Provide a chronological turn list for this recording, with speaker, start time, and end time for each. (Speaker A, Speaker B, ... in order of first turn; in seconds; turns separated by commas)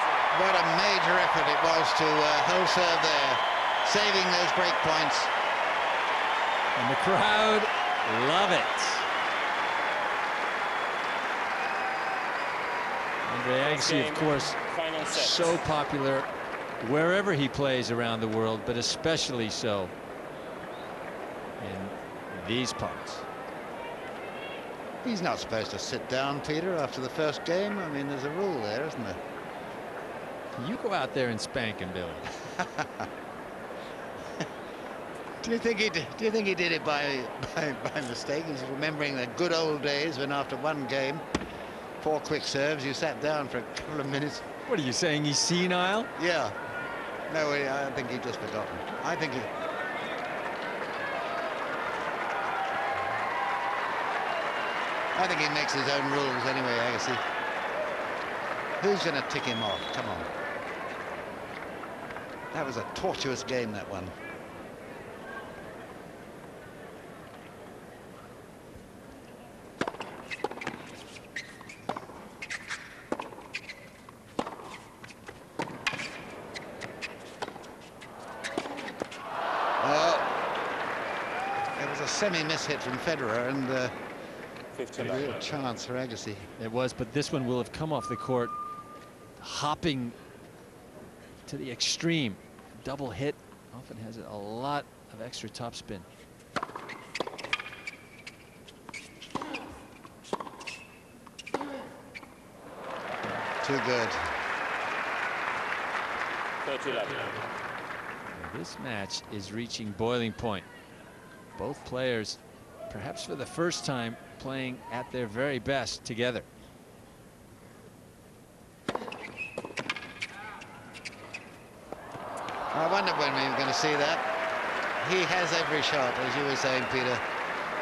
Speaker A: 0.3-5.3, Speaker B: 6.7-9.1, Speaker B: 13.2-16.3, Speaker C: 13.7-15.2, Speaker B: 16.8-19.9, Speaker B: 21.6-23.2, Speaker A: 25.0-29.2, Speaker B: 30.6-32.3, Speaker A: 32.6-33.1, Speaker A: 35.4-41.2, Speaker A: 42.0-44.4, Speaker B: 44.6-46.1, Speaker A: 46.2-46.5, Speaker A: 47.3-49.5, Speaker A: 55.1-57.2, Speaker A: 58.8-60.3, Speaker A: 62.5-64.1, Speaker A: 79.8-80.4, Speaker A: 81.8-83.9, Speaker A: 84.9-86.5, Speaker B: 86.6-88.5, Speaker B: 89.4-90.2, Speaker B: 91.5-96.1, Speaker A: 103.6-104.3, Speaker C: 106.6-107.3, Speaker B: 108.3-110.7, Speaker B: 111.5-116.5, Speaker A: 122.7-124.2, Speaker A: 125.0-127.2